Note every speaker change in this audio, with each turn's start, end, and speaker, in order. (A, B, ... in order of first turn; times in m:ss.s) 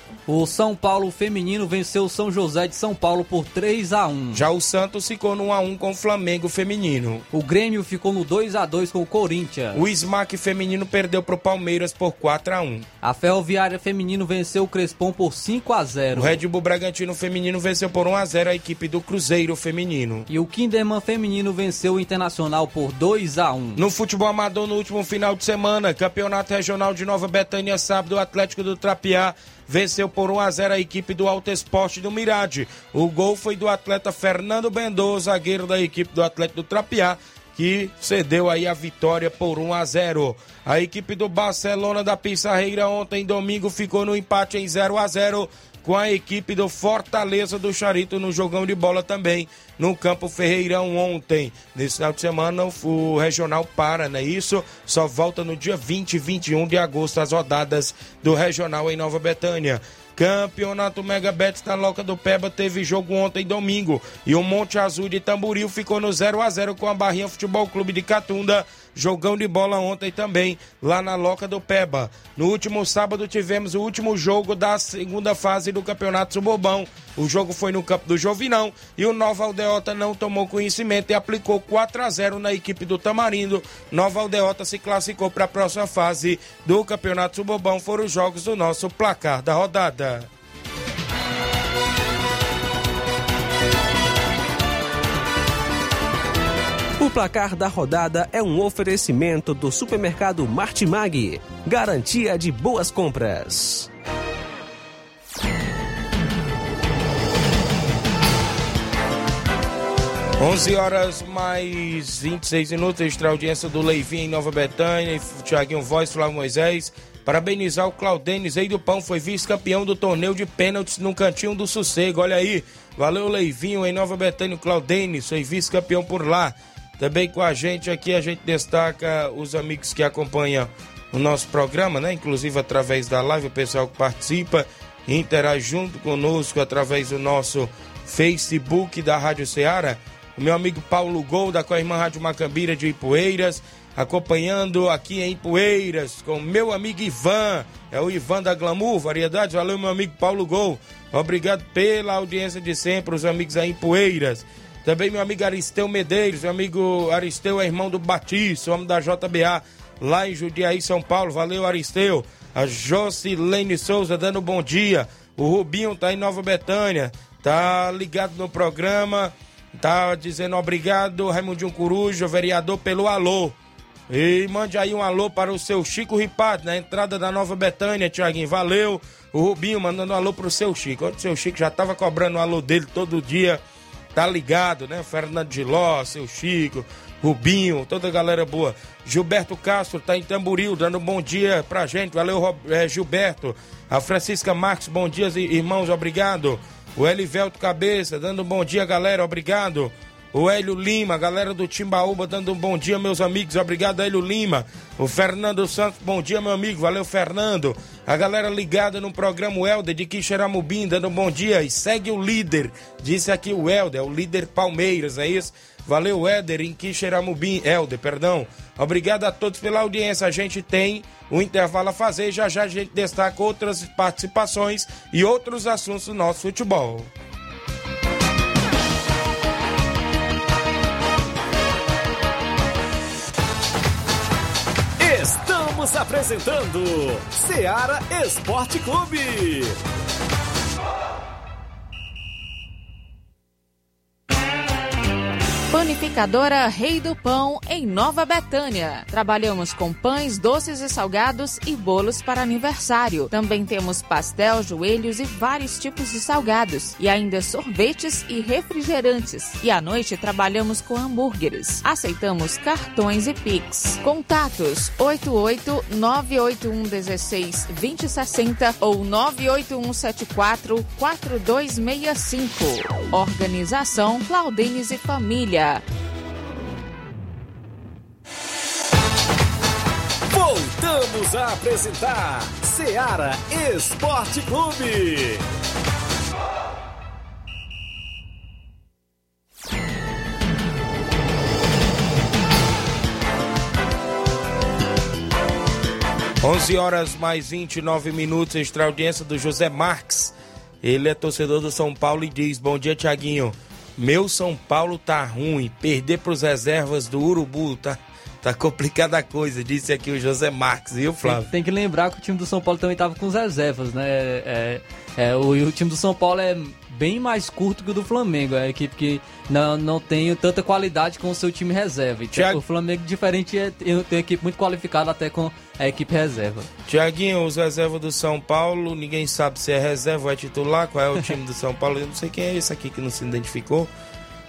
0:00.3-0:04.4 A
0:04.3-0:07.2 B
0:07.3-0:09.8 A
0:09.7-0:12.9 B
0:13.0-0:16.4 A
0:16.1-0:20.2 B
0:20.3-0:23.8 A
0:23.8-1:30.3 B
1:37.0-1:43.9 C
1:50.4-2:53.6 B
2:54.1-3:03.6 B
3:04.1-3:47.1 B
3:55.0-3:59.8 D
4:05.7-4:35.8 E
4:40.3-4:45.4 D
4:56.4-5:11.5 B
5:11.2-5:26.7 A
5:22.3-5:22.6 B
5:26.9-5:33.9 B